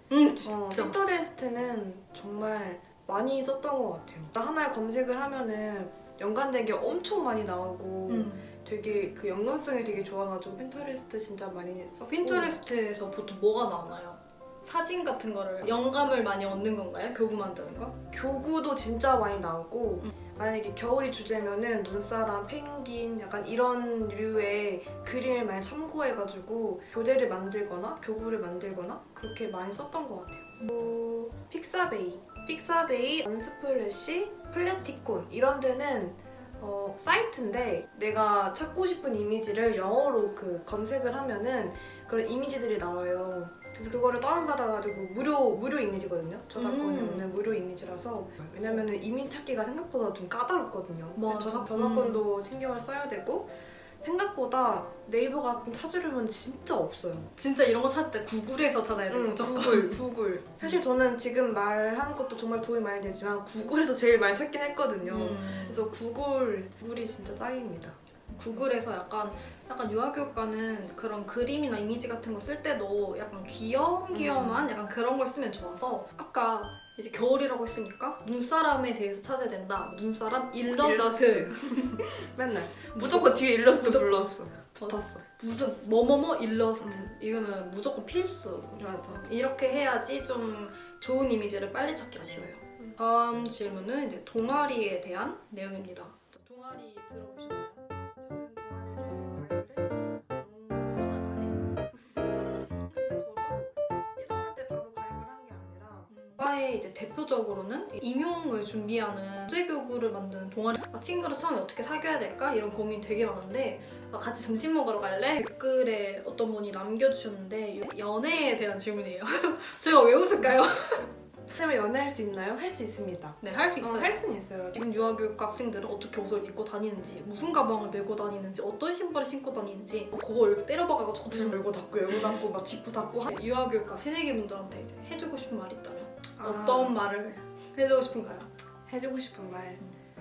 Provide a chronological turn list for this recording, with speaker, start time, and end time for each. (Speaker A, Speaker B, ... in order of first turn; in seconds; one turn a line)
Speaker A: 0.1-0.9
Speaker B: 0.4-12.6
Speaker A: 8.1-8.5
Speaker A: 12.1-18.0
Speaker B: 18.1-57.3
Speaker A: 46.5-47.3
Speaker A: 51.2-52.2
Speaker A: 57.4-60.0
Speaker B: 59.1-68.0
Speaker A: 65.0-65.9
Speaker A: 68.3-82.1
Speaker B: 74.1-74.7
Speaker B: 80.5-85.2
Speaker A: 82.9-97.8
Speaker B: 86.8-87.0
Speaker B: 88.7-89.2
Speaker B: 98.2-100.4
Speaker A: 100.4-101.9
Speaker B: 102.0-106.1
Speaker A: 106.1-121.1
Speaker B: 121.5-124.8
Speaker A: 123.4-124.2
Speaker A: 124.7-131.6
Speaker B: 131.3-133.3
Speaker A: 133.3-138.5
Speaker B: 136.4-137.0
Speaker B: 138.9-139.8